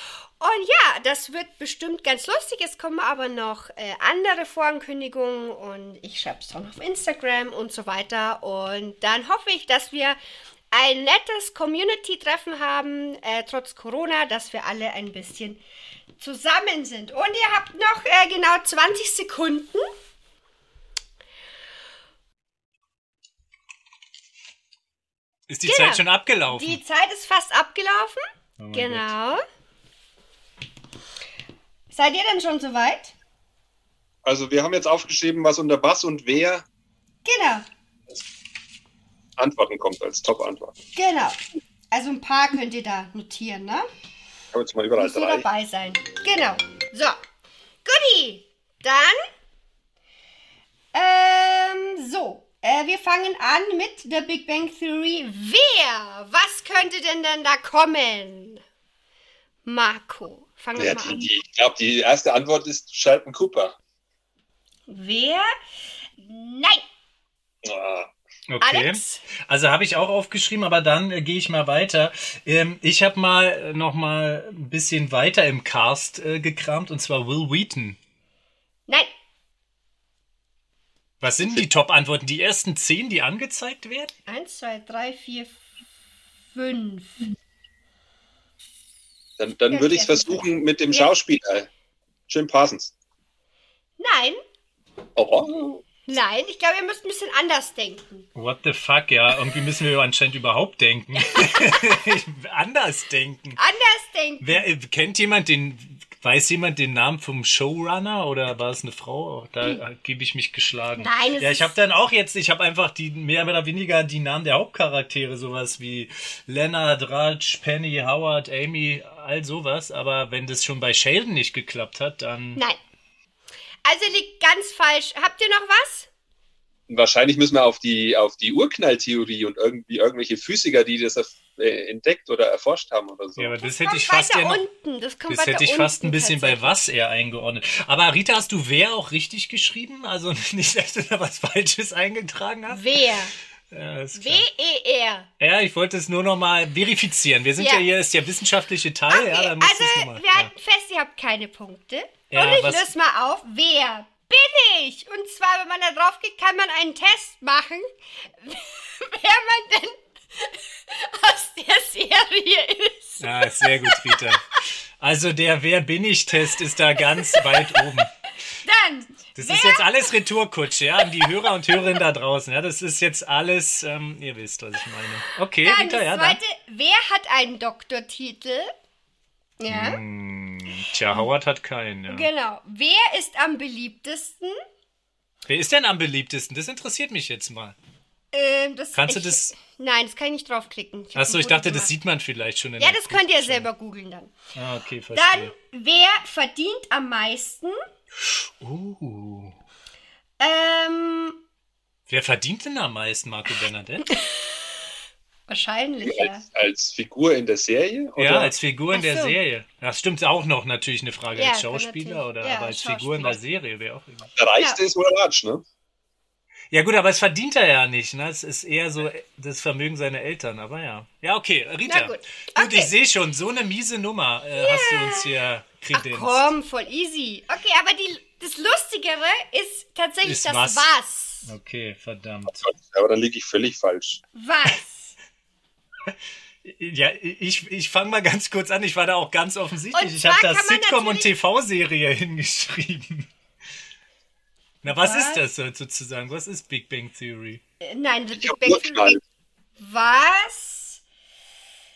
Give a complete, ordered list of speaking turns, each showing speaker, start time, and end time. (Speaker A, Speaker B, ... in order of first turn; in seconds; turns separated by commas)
Speaker A: 0.4-10.2, Speaker A: 10.7-15.6, Speaker A: 16.2-19.9, Speaker B: 25.5-26.8, Speaker A: 25.7-29.4, Speaker B: 28.6-29.1, Speaker A: 31.9-33.1, Speaker C: 34.2-36.7, Speaker A: 37.2-37.7, Speaker C: 39.4-40.8, Speaker A: 41.0-41.4, Speaker A: 41.9-43.9, Speaker C: 44.5-45.5, Speaker A: 45.0-47.2, Speaker A: 47.9-49.2, Speaker A: 50.9-58.6, Speaker A: 59.6-61.3, Speaker C: 60.8-63.8, Speaker A: 64.9-65.5, Speaker A: 66.2-66.8, Speaker C: 67.6-68.1, Speaker B: 68.5-78.0, Speaker A: 68.6-69.2, Speaker B: 81.2-84.2, Speaker A: 84.3-85.6, Speaker A: 86.5-87.3, Speaker C: 89.4-91.7, Speaker A: 89.7-90.4, Speaker C: 92.3-92.9, Speaker A: 94.0-94.4, Speaker C: 95.2-95.8, Speaker A: 96.1-98.3, Speaker B: 98.4-103.6, Speaker A: 101.3-101.8, Speaker A: 103.6-104.6, Speaker B: 104.4-122.6, Speaker A: 111.0-111.7, Speaker A: 123.8-126.1, Speaker C: 126.9-133.6, Speaker B: 133.4-134.7, Speaker A: 133.7-136.9, Speaker B: 135.3-143.0, Speaker A: 142.7-143.3, Speaker B: 143.7-144.5, Speaker A: 144.1-145.3, Speaker B: 145.4-150.5, Speaker A: 147.6-147.9, Speaker A: 149.1-157.9, Speaker B: 152.3-152.9, Speaker A: 158.4-164.3, Speaker B: 163.2-168.1, Speaker A: 167.2-167.5, Speaker A: 168.6-170.1, Speaker B: 169.4-176.4, Speaker A: 175.6-178.7, Speaker A: 179.6-180.0, Speaker B: 179.7-182.3, Speaker A: 182.1-184.6, Speaker B: 185.5-187.8, Speaker A: 188.3-191.9, Speaker B: 188.9-189.5, Speaker B: 191.2-193.7, Speaker A: 192.8-194.3, Speaker B: 194.6-195.5, Speaker A: 195.1-197.8, Speaker B: 198.6-199.6, Speaker A: 200.4-201.4, Speaker B: 202.1-204.1, Speaker A: 205.5-206.5, Speaker C: 206.0-208.5, Speaker B: 208.2-214.3, Speaker A: 208.9-209.4, Speaker A: 211.4-213.4, Speaker C: 214.4-215.6, Speaker B: 216.7-226.5, Speaker A: 221.9-222.9, Speaker A: 224.6-225.3, Speaker A: 225.9-231.5, Speaker B: 230.2-230.9, Speaker B: 231.4-232.6, Speaker C: 232.5-234.2, Speaker A: 234.3-235.2, Speaker B: 236.6-243.3, Speaker A: 239.9-241.3, Speaker B: 244.8-247.6, Speaker A: 244.9-245.4, Speaker A: 247.8-249.2, Speaker C: 248.4-249.2, Speaker A: 249.8-251.0